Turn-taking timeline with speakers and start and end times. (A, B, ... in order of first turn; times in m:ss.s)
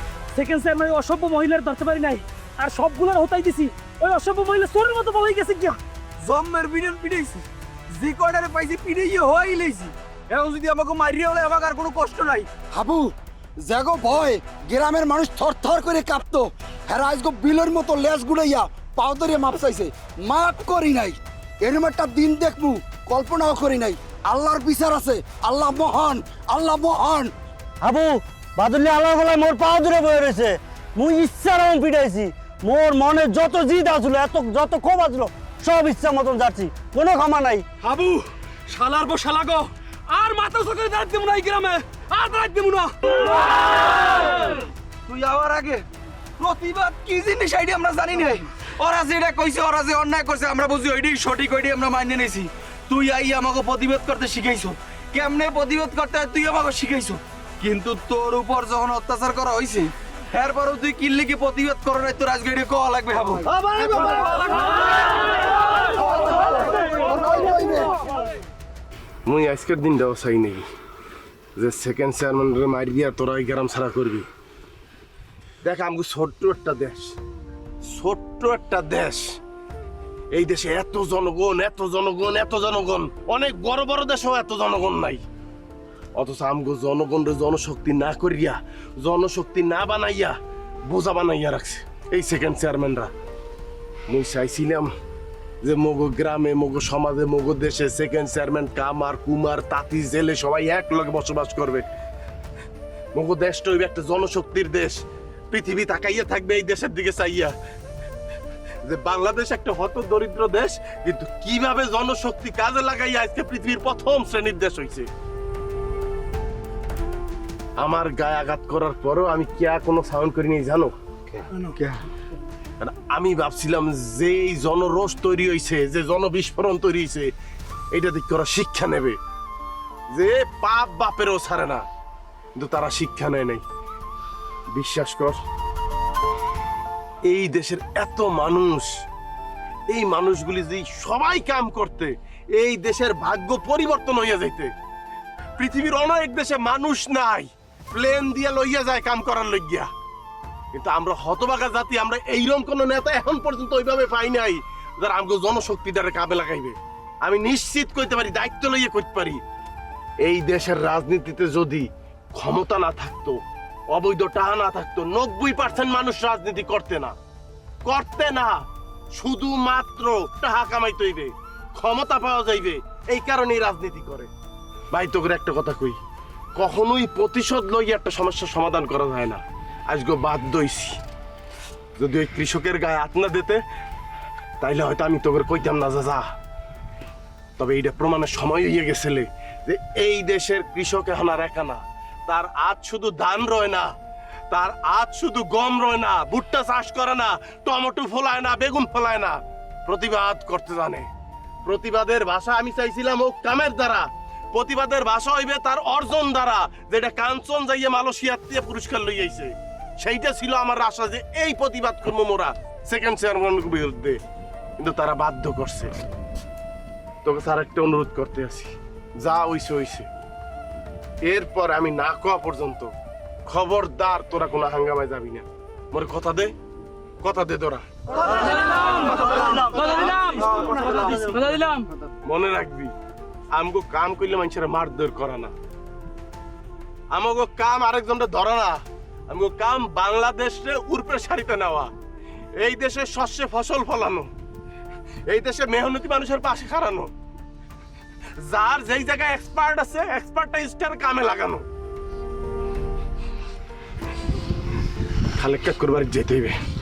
0:00.3-0:05.8 A
0:06.2-0:12.5 B
0:12.7-0:27.3 C
0:27.8-0:37.6 D
0:37.8-0:39.7 B
0:40.1-0:42.9 A
0:40.5-0:42.4 B
0:44.1-0:44.5 B
0:45.1-0:45.8 B
0:46.4-1:04.0 B
1:07.1-1:07.9 C
1:09.2-1:10.6 E
1:11.6-1:14.3 E
1:15.6-1:17.1 E
1:17.9-1:19.4 E
1:20.3-1:25.2 E
1:26.2-1:33.1 E
1:34.1-1:34.9 E
1:35.6-1:41.9 E
1:43.1-1:47.5 E
1:48.8-1:55.1 E
1:57.8-2:00.9 E
2:02.8-2:07.3 E
2:07.9-2:09.2 E
2:10.1-2:11.8 E
2:12.6-2:13.6 E
2:14.7-2:15.4 E
2:17.3-2:18.9 E
2:19.9-2:24.7 E
2:25.6-2:29.9 E
2:30.7-2:39.4 E
2:40.2-2:43.4 E
2:43.9-2:47.1 E
2:47.8-2:48.6 E
2:49.1-2:54.3 E
2:54.9-2:56.0 E
2:56.6-3:01.0 E
3:02.0-3:03.6 E
3:04.6-3:06.2 E
3:07.6-3:13.9 E
3:14.5-3:21.1 E
3:21.6-3:34.2 E
3:34.8-3:35.9 E
3:37.2-3:40.1 E
3:41.2-3:42.9 E
3:43.5-3:46.5 E
3:47.2-3:47.8 E
3:49.8-3:50.5 A
3:51.1-3:51.8 A
3:52.2-3:52.9 E
3:53.5-3:55.5 E
3:57.1-3:58.8 E
3:59.3-4:01.9 E
4:02.6-4:04.3 E
4:05.3-4:07.1 E
4:08.4-4:11.6 E
4:15.4-4:16.6 E